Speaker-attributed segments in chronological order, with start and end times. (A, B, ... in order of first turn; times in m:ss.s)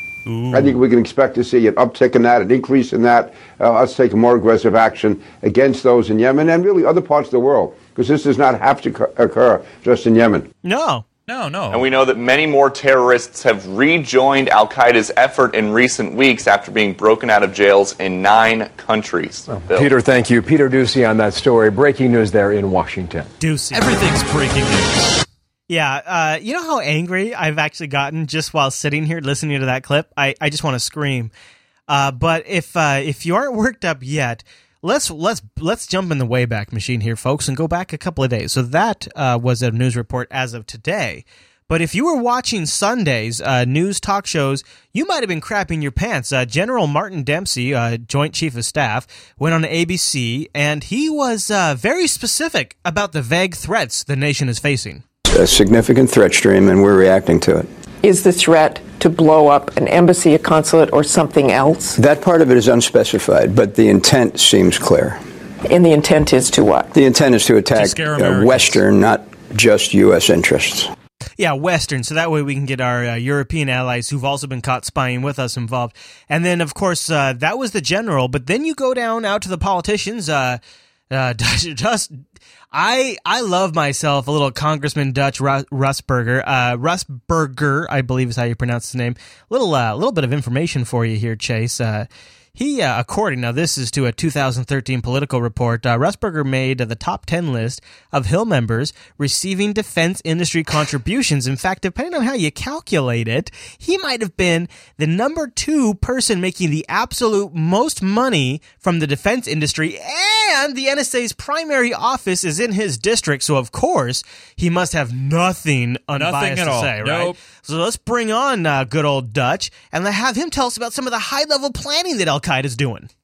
0:00.3-0:00.7 A
0:00.5-0:10.4 B
0:10.6-0:11.0 C
0:11.3-0:11.9 A
0:11.7-0:20.0 D
0:19.5-0:23.3 E
0:23.4-0:24.0 C
0:23.7-0:25.2 A
0:25.7-0:31.3 C
0:31.9-0:55.0 C
0:55.3-0:57.7 F
0:58.0-1:02.0 G
1:02.0-1:05.2 F
1:05.6-1:06.9 G
1:06.9-1:10.9 F
1:07.7-1:08.8 A
1:11.4-1:20.6 C
1:21.1-1:22.2 C
1:22.7-2:03.1 C
1:56.2-1:57.4 A